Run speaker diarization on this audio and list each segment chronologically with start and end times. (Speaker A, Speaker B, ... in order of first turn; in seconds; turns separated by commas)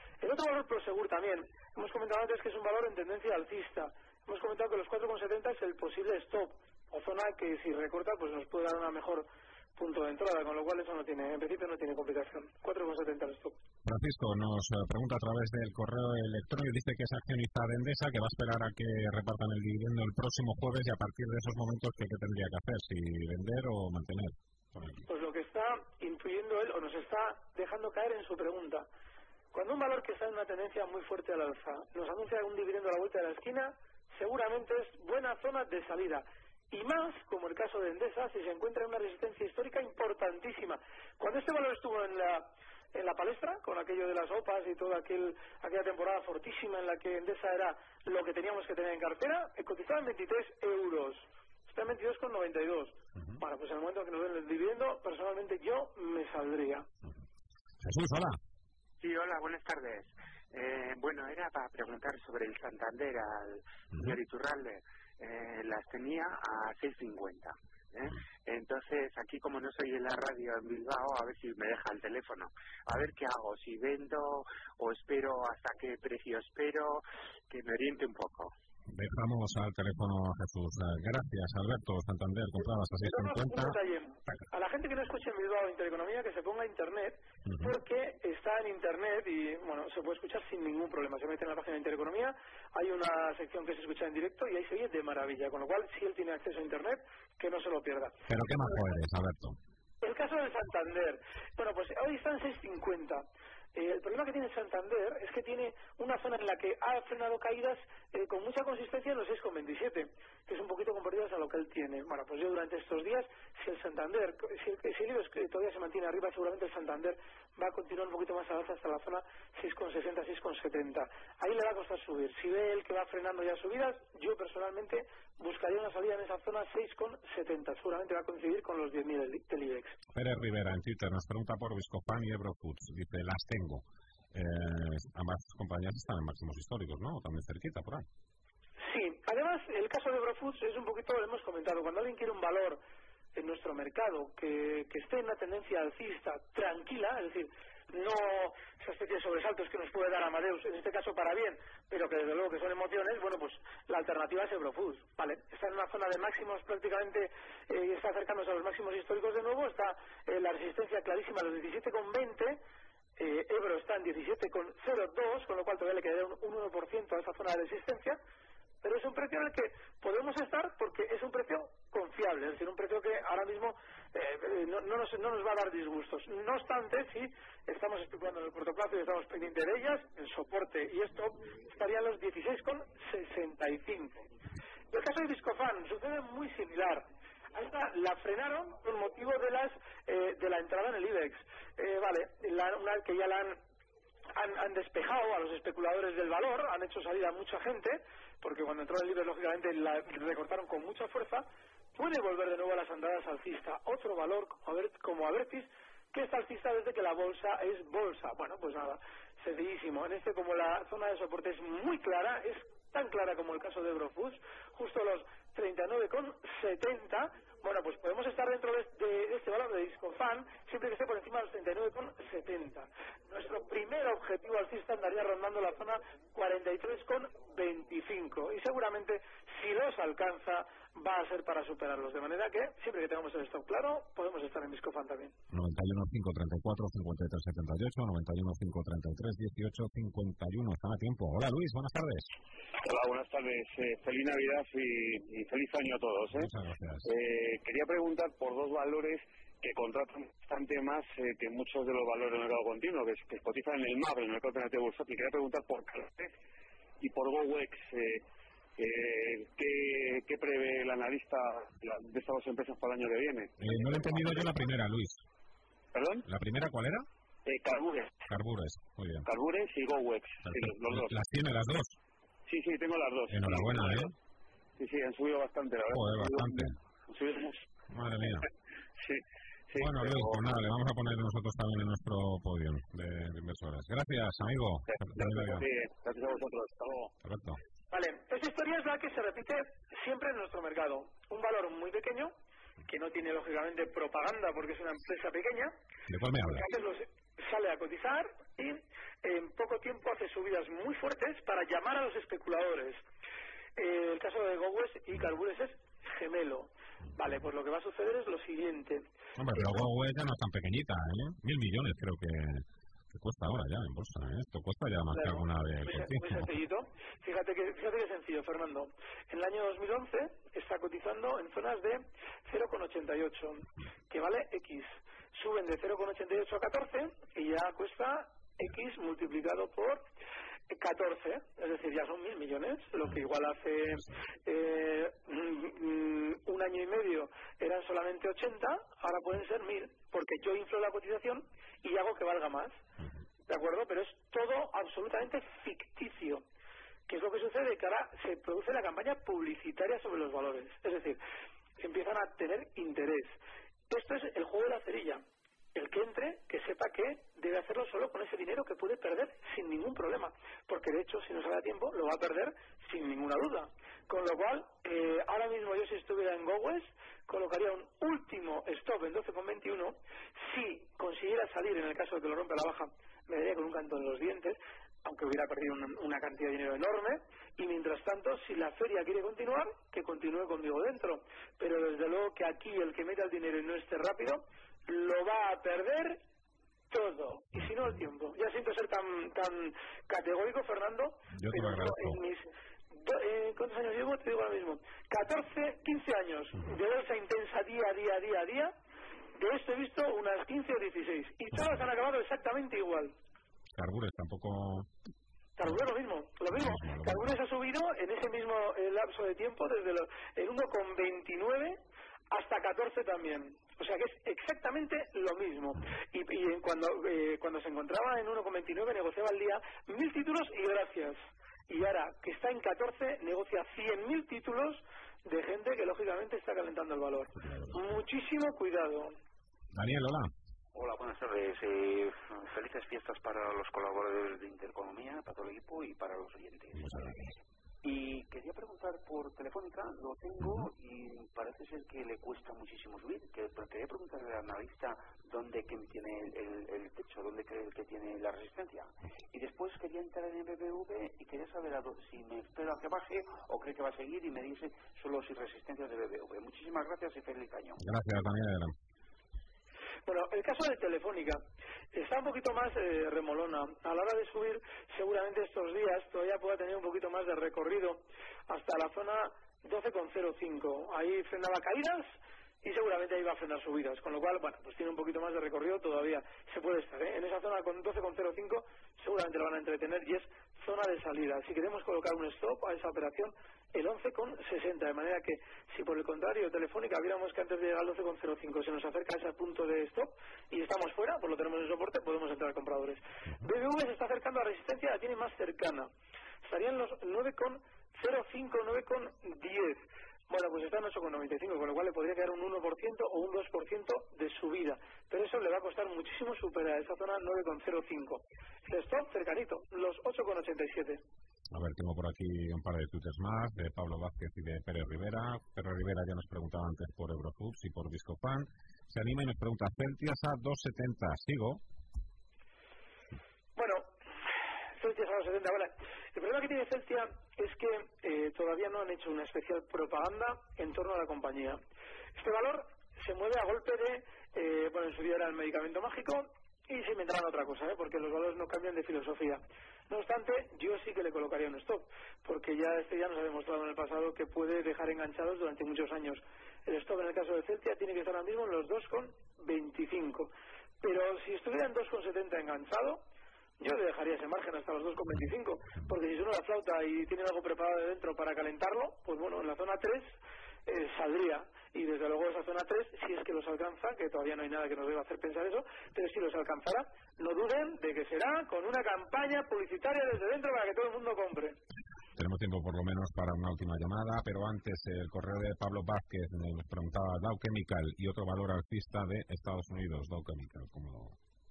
Speaker A: 0.2-13.6, Speaker B: 13.8-25.1, Speaker A: 25.1-28.9, Speaker A: 29.5-56.9, Speaker B: 57.8-58.4, Speaker C: 59.0-78.5, Speaker B: 78.9-83.8, Speaker A: 83.0-98.2, Speaker B: 87.5-87.8, Speaker B: 98.3-99.6, Speaker A: 100.0-130.0, Speaker B: 130.1-138.1, Speaker A: 138.8-142.8, Speaker A: 143.3-162.6, Speaker A: 163.2-168.2, Speaker A: 168.8-184.2, Speaker A: 184.9-193.6, Speaker A: 194.3-235.3, Speaker B: 235.5-242.3, Speaker D: 242.8-246.5, Speaker B: 246.3-247.1, Speaker D: 247.0-256.4, Speaker D: 257.0-258.2, Speaker D: 258.8-264.4, Speaker B: 263.6-265.2, Speaker D: 265.9-266.2, Speaker B: 266.2-267.1, Speaker D: 267.4-268.2, Speaker B: 268.3-269.3, Speaker D: 269.3-271.1, Speaker B: 270.4-272.0, Speaker D: 272.5-274.1, Speaker B: 273.3-274.1, Speaker D: 274.8-277.6, Speaker B: 275.9-276.8, Speaker B: 277.9-278.5, Speaker D: 279.0-280.4, Speaker B: 279.8-285.7, Speaker D: 284.9-287.1, Speaker B: 287.2-287.6, Speaker A: 287.9-292.3, Speaker A: 292.9-295.8, Speaker B: 296.1-296.7, Speaker A: 296.4-303.0, Speaker A: 303.8-309.8, Speaker B: 309.4-316.5, Speaker A: 315.1-330.0, Speaker A: 330.7-342.8, Speaker A: 343.5-346.4, Speaker A: 347.1-351.2, Speaker A: 351.8-353.4, Speaker A: 353.9-355.2, Speaker A: 355.8-386.2, Speaker A: 386.9-398.7, Speaker B: 387.6-387.9, Speaker B: 391.3-392.2, Speaker A: 399.4-403.1, Speaker B: 401.5-401.8, Speaker B: 403.7-404.9, Speaker A: 405.6-411.8, Speaker B: 406.5-407.4, Speaker A: 412.3-429.1, Speaker B: 427.4-427.8, Speaker B: 429.7-430.3, Speaker E: 430.8-457.8, Speaker B: 436.8-437.2, Speaker B: 440.4-440.7, Speaker B: 457.8-458.8, Speaker A: 460.1-461.4, Speaker A: 461.9-495.9, Speaker A: 496.4-511.0, Speaker B: 511.5-521.6, Speaker A: 523.6-523.9, Speaker A: 524.8-531.6, Speaker A: 532.2-553.0, Speaker A: 553.6-571.6, Speaker B: 572.2-581.2